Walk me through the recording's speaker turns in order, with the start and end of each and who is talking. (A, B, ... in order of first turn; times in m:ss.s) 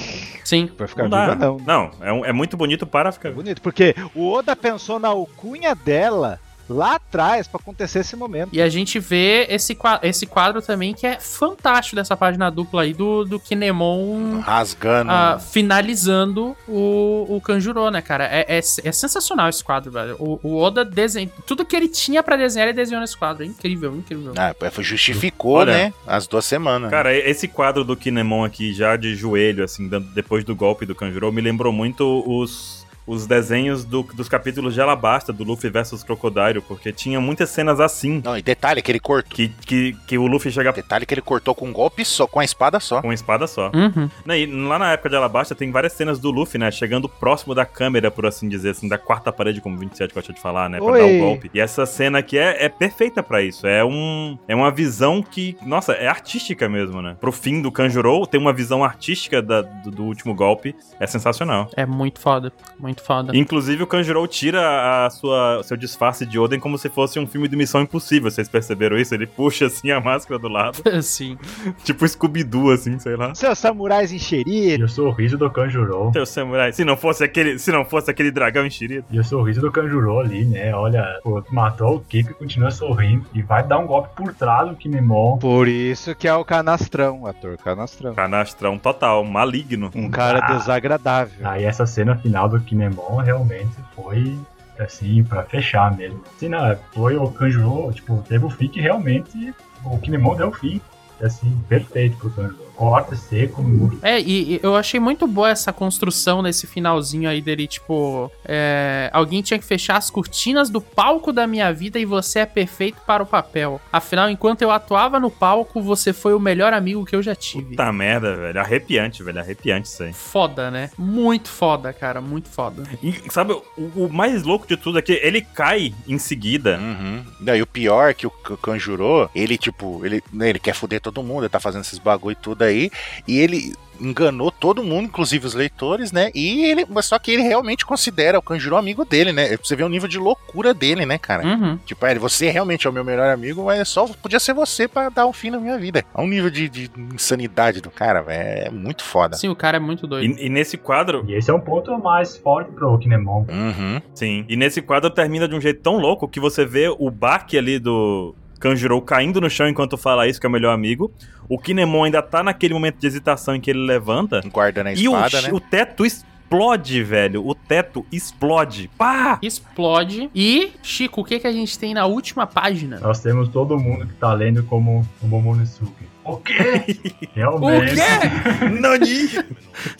0:00.4-0:00.7 A
0:00.8-0:01.7 B
0:01.0-0:03.4 C
0:03.3-0:08.7 B
0:08.5-0:14.5 A
0:14.2-0:15.4 D
0:15.0-0:24.4 A
0:24.3-0:27.0 D
0:25.1-0:25.9 C
0:26.9-0:38.3 C
0:38.2-0:39.4 D
0:39.3-0:40.8 C
0:40.7-0:43.1 D
0:43.0-1:01.7 C
0:43.7-0:44.1 A
0:50.8-0:51.4 B
1:01.7-1:03.4 A
1:03.3-1:10.8 C
1:10.8-1:11.4 A
1:11.8-1:13.4 C
1:13.3-1:14.8 B
1:14.7-1:16.2 E
1:16.1-1:19.1 C
1:19.1-1:25.4 E
1:25.4-1:28.2 B
1:28.2-1:29.9 C
1:29.9-1:31.5 B
1:30.1-1:30.7 E
1:31.4-1:44.0 E
1:44.0-1:57.8 A
1:57.5-2:00.2 C
2:00.1-2:02.9 A
2:03.0-2:06.8 C
2:06.7-2:29.4 D
2:21.4-2:21.8 A
2:29.3-2:30.3 A
2:30.2-2:31.3 C
2:31.2-2:33.5 E
2:33.5-2:34.0 D
2:34.2-2:49.4 C
2:44.4-2:45.6 D
2:49.4-2:53.0 A
2:53.0-2:58.9 E
2:56.6-2:59.4 C
2:57.6-2:58.4 A
2:58.7-2:59.0 D